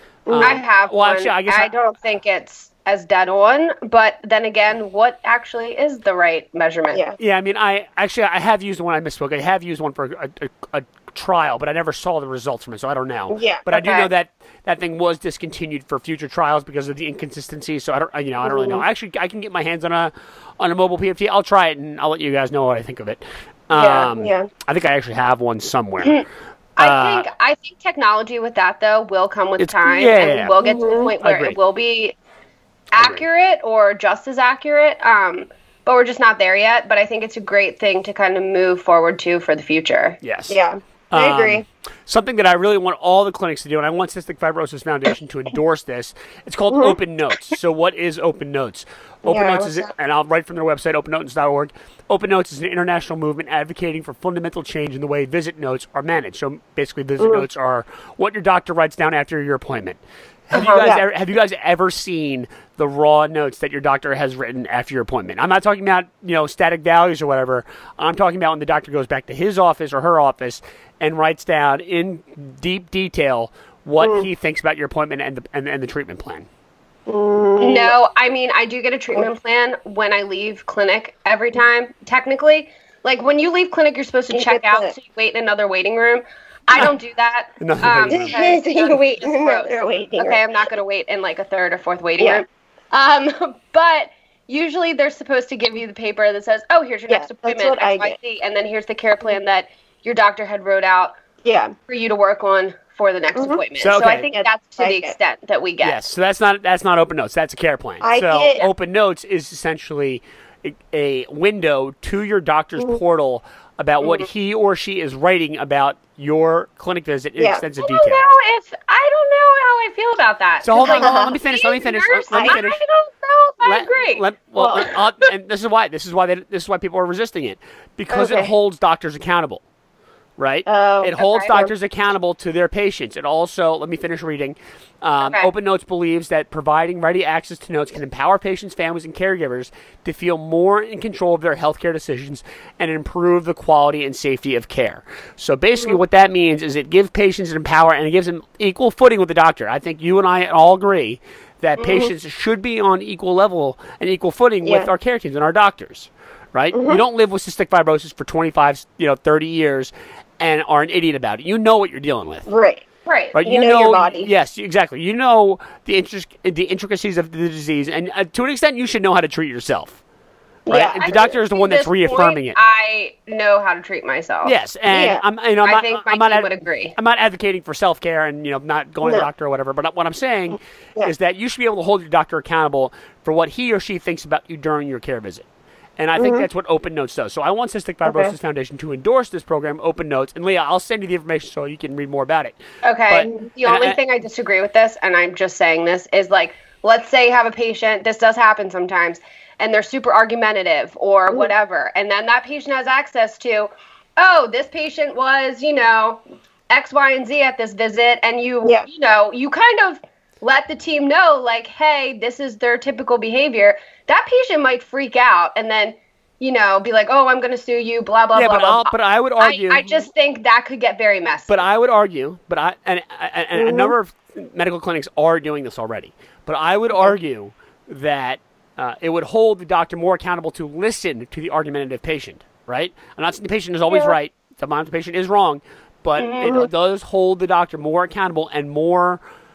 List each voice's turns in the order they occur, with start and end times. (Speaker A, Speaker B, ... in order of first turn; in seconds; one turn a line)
Speaker A: 0.3-0.6
Speaker B: 0.3-1.7
Speaker C: 0.4-7.0
Speaker B: 7.2-26.2
Speaker A: 13.3-13.6
Speaker C: 13.7-14.1
Speaker A: 18.4-18.8
Speaker A: 23.7-24.5
Speaker C: 26.8-32.1
Speaker B: 26.8-27.2
Speaker B: 29.6-30.6
Speaker A: 30.6-31.1
Speaker B: 31.2-31.6
Speaker C: 32.9-40.2
Speaker B: 33.0-33.2
Speaker B: 40.2-40.6
Speaker A: 40.5-41.6
Speaker B: 41.1-60.0
Speaker A: 46.7-47.0
Speaker A: 49.3-49.9
Speaker A: 57.2-57.4
Speaker B: 60.5-76.5
Speaker C: 60.5-60.9
Speaker A: 74.0-74.3
Speaker A: 77.1-78.0
Speaker C: 77.6-101.2
Speaker A: 84.3-84.9
Speaker B: 87.6-88.4
Speaker A: 88.1-90.4
Speaker A: 92.2-92.4
Speaker A: 97.1-98.2
Speaker A: 101.4-101.7
Speaker C: 101.9-106.0
Speaker A: 103.3-103.6
Speaker B: 103.8-104.3
Speaker A: 104.3-105.1
Speaker B: 105.8-118.3
Speaker A: 108.0-108.7
Speaker A: 117.4-117.6
Speaker C: 117.8-124.2
Speaker B: 120.6-122.8
Speaker A: 120.8-121.3
Speaker A: 122.3-122.6
Speaker B: 123.6-129.6
Speaker A: 124.6-124.8
Speaker A: 128.1-128.5
Speaker B: 130.4-162.4
Speaker A: 130.7-131.7
Speaker C: 131.2-131.5
Speaker A: 151.8-152.1
Speaker A: 154.6-154.9
Speaker A: 156.7-157.0
Speaker A: 162.5-162.8
Speaker C: 163.1-163.3
Speaker B: 163.3-170.0
Speaker A: 163.4-164.3
Speaker A: 170.7-171.3
Speaker B: 170.7-172.6
Speaker C: 171.0-174.5
Speaker B: 174.4-185.5
Speaker A: 174.9-175.2
Speaker C: 175.6-176.9
Speaker A: 179.0-179.3
Speaker B: 186.0-192.6
Speaker A: 186.2-186.4
Speaker A: 188.0-188.3
Speaker C: 192.8-221.6
Speaker B: 193.1-194.0
Speaker B: 218.3-220.0
Speaker B: 221.5-239.2
Speaker A: 223.6-223.9
Speaker A: 233.9-234.1
Speaker C: 236.2-236.6
Speaker A: 236.4-236.7